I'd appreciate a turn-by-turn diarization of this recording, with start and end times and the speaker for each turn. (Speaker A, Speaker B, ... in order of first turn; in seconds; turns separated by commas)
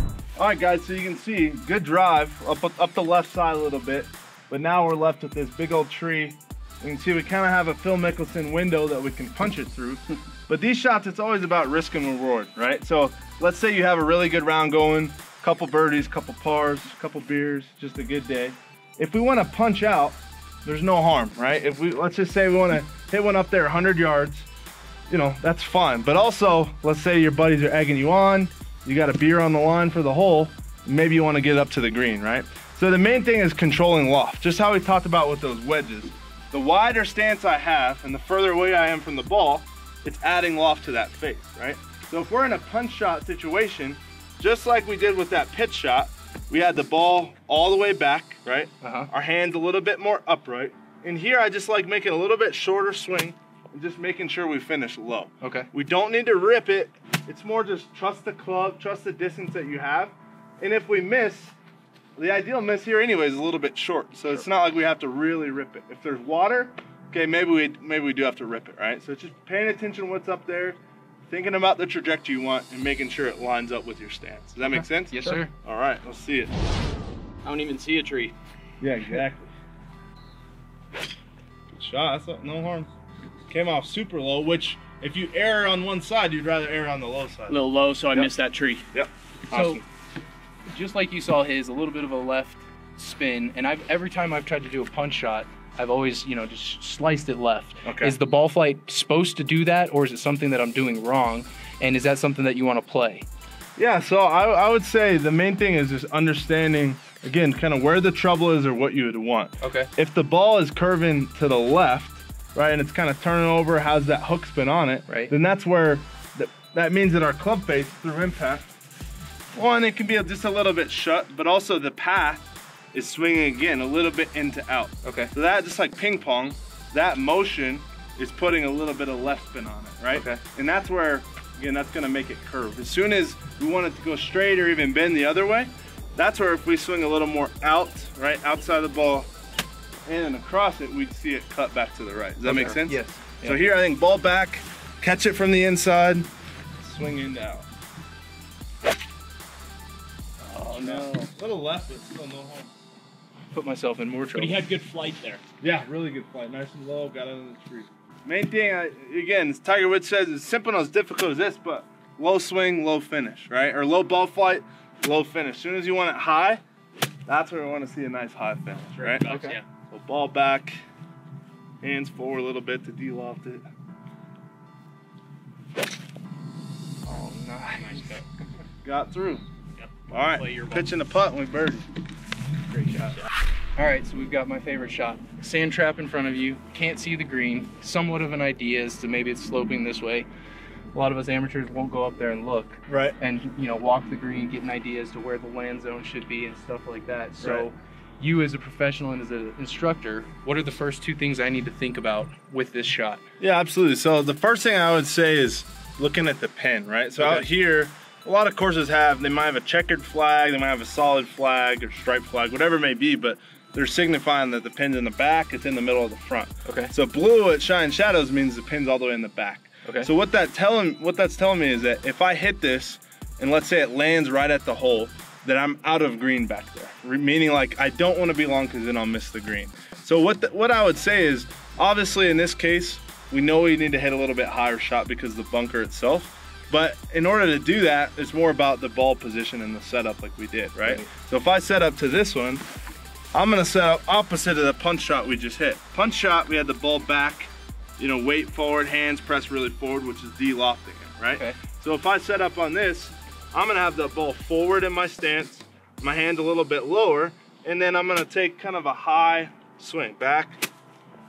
Speaker A: 0.4-24.5, Speaker A: 25.1-61.5, Speaker B: 48.8-49.1, Speaker B: 55.4-55.7, Speaker A: 62.1-70.8, Speaker A: 71.3-76.5, Speaker B: 75.1-75.5, Speaker C: 77.4-78.3, Speaker A: 78.8-79.5, Speaker A: 81.7-82.9, Speaker A: 83.5-87.6, Speaker C: 87.5-88.9, Speaker C: 89.5-89.8, Speaker B: 89.5-89.8, Speaker B: 90.7-103.2, Speaker A: 97.8-98.2, Speaker A: 103.8-118.7, Speaker B: 109.6-109.9, Speaker B: 115.1-115.3, Speaker A: 119.5-139.3, Speaker B: 125.0-125.3, Speaker B: 130.1-130.4, Speaker A: 140.1-146.3, Speaker B: 142.4-143.6, Speaker A: 146.8-147.7, Speaker B: 150.4-151.1, Speaker A: 150.7-152.7, Speaker B: 153.5-154.6, Speaker C: 154.3-155.4, Speaker A: 155.6-166.6, Speaker A: 167.3-169.2, Speaker C: 169.0-169.6, Speaker B: 169.2-169.6, Speaker A: 169.9-170.8, Speaker A: 171.8-173.7, Speaker B: 177.1-178.1, Speaker C: 177.8-178.2, Speaker A: 178.8-179.4, Speaker C: 179.8-180.8, Speaker A: 180.1-181.9, Speaker B: 182.7-183.2, Speaker B: 183.8-190.3, Speaker B: 190.9-203.2, Speaker A: 192.9-193.2, Speaker A: 197.4-197.7, Speaker A: 203.4-242.6, Speaker B: 207.2-207.4, Speaker B: 216.7-216.9, Speaker B: 219.8-220.1, Speaker B: 240.8-241.1, Speaker A: 243.3-260.7